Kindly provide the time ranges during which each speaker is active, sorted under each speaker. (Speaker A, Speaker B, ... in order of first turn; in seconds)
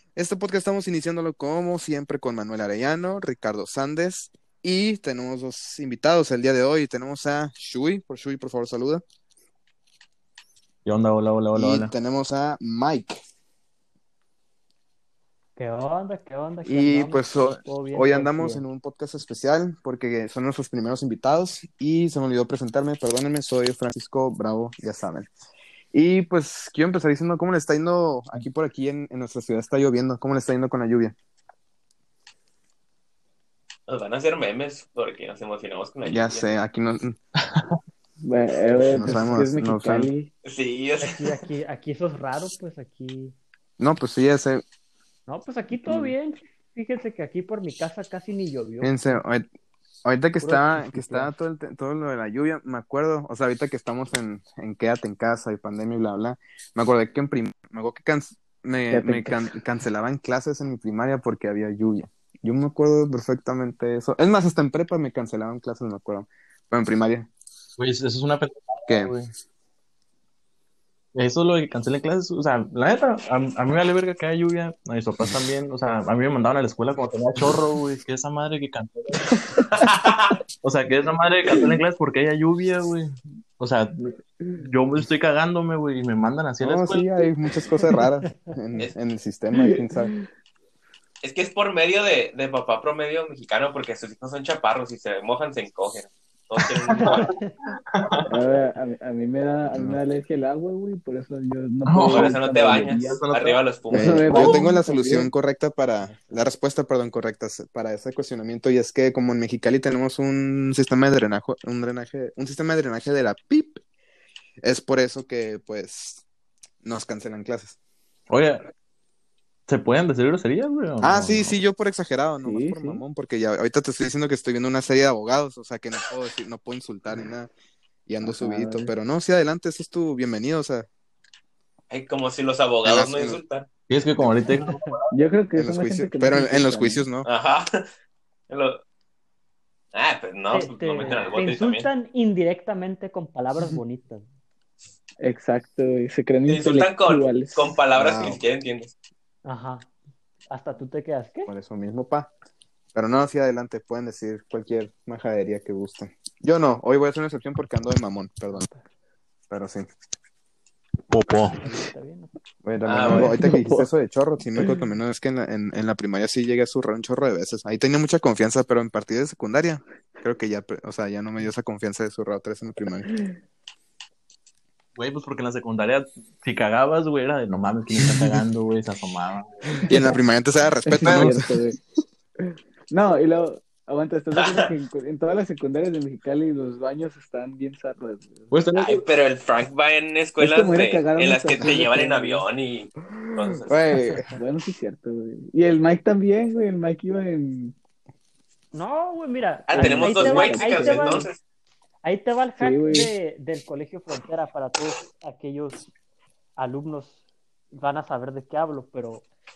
Speaker A: 0.1-9.0, 11.5-13.2, 16.6-25.3, 25.9-31.1, 36.0-37.1, 38.9-40.1, 43.8-44.6, 48.8-49.5, 50.0-67.3, 86.6-90.1, 99.7-100.0, 103.9-113.8, 114.6-116.2, 116.8-117.8, 121.0-127.5, 128.1-130.9, 132.8-133.4, 134.2-134.4, 135.5-137.3, 147.9-148.4, 151.5-152.3, 152.9-158.7, 159.5-159.9, 162.6-173.1, 179.9-181.4, 193.7-194.3
Speaker B: 10.8-11.9, 37.4-37.7, 67.8-69.3, 71.1-79.5, 80.6-87.2, 96.6-97.3, 97.9-98.3, 101.8-104.7, 118.3-118.7, 119.7-121.5, 133.9-135.1, 161.1-161.8, 174.9-179.9, 181.0-181.4, 188.5-189.0
Speaker C: 15.6-18.6, 41.0-43.3, 45.3-49.2, 50.4-51.3, 97.0-97.5, 106.0-106.5, 134.5-134.9, 140.5-144.2, 149.4-149.9, 150.5-151.5, 158.5-158.8, 161.6-162.3, 198.7-201.3, 202.0-205.8, 206.6-207.2, 207.8-209.2
Speaker D: 33.9-36.6, 40.4-41.2, 79.8-80.4, 91.2-97.3, 102.1-104.2, 131.9-133.7, 137.2-137.9, 138.5-138.8, 139.9-141.9, 146.4-148.9, 162.8-163.3, 184.3-184.7, 188.7-193.8, 199.7-201.4
Speaker E: 38.2-40.3, 45.8-46.1, 58.9-59.5, 81.4-81.8, 89.5-90.2, 98.3-103.2, 103.9-105.3, 122.4-123.0, 128.2-128.9, 135.1-137.0, 145.2-147.7, 163.0-163.9, 180.8-181.8, 182.4-188.5, 190.4-192.4, 194.4-197.7, 199.7-201.3, 202.6-203.1